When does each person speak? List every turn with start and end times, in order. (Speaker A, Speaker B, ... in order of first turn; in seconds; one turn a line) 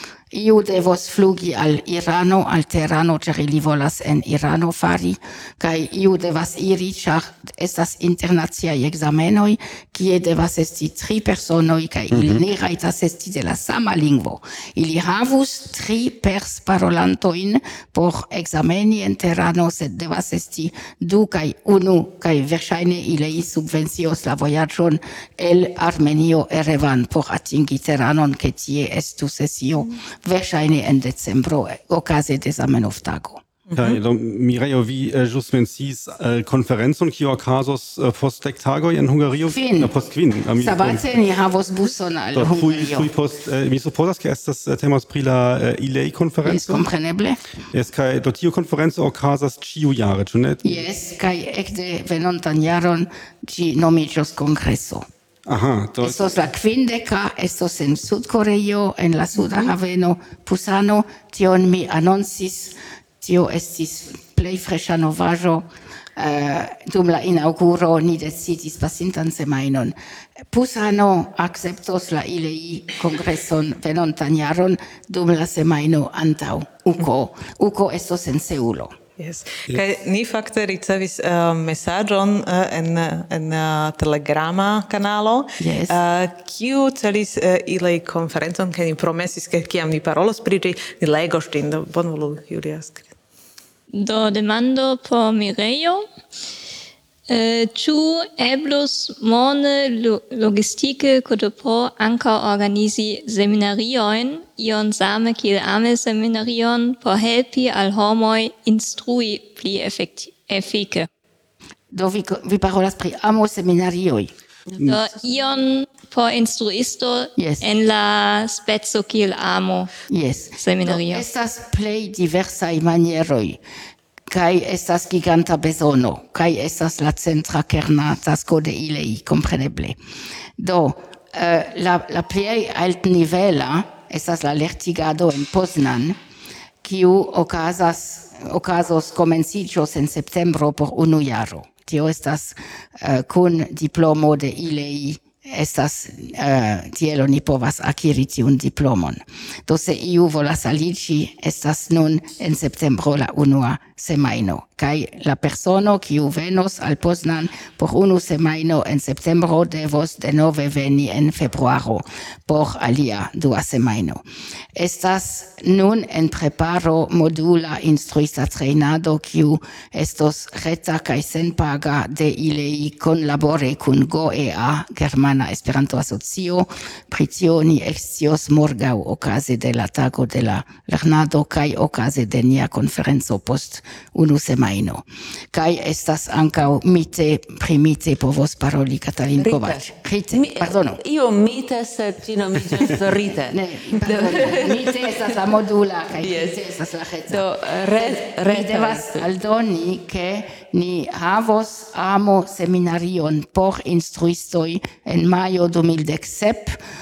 Speaker A: 0.3-33.4
Speaker B: 12.1-12.4
Speaker C: 33.7-34.0
Speaker B: 33.8-41.1
Speaker A: 39.5-39.9
Speaker A: 40.6-43.1
Speaker B: 42.3-46.8
Speaker A: 46.4-47.4
Speaker B: 47.7-50.8
Speaker A: 50.6-55.0
Speaker B: 55.5-56.5
Speaker A: 56.0-65.6
Speaker A: 66.2-69.9
Speaker A: 70.5-78.9
Speaker C: 79.2-93.1
Speaker A: 85.6-86.0
Speaker D: 93.9-96.0
Speaker D: 97.3-111.1
Speaker A: 111.9-114.3
Speaker D: 114.8-119.9
Speaker A: 117.4-117.6
Speaker A: 120.1-123.6
Speaker D: 120.6-121.3
Speaker A: 124.3-130.0
Speaker A: 130.6-136.2
Speaker A: 136.8-164.2
Speaker A: 164.8-191.0
Speaker E: 189.4-195.3
Speaker A: 193.5-206.8
Speaker E: 196.2-196.6
Speaker E: 197.3-199.2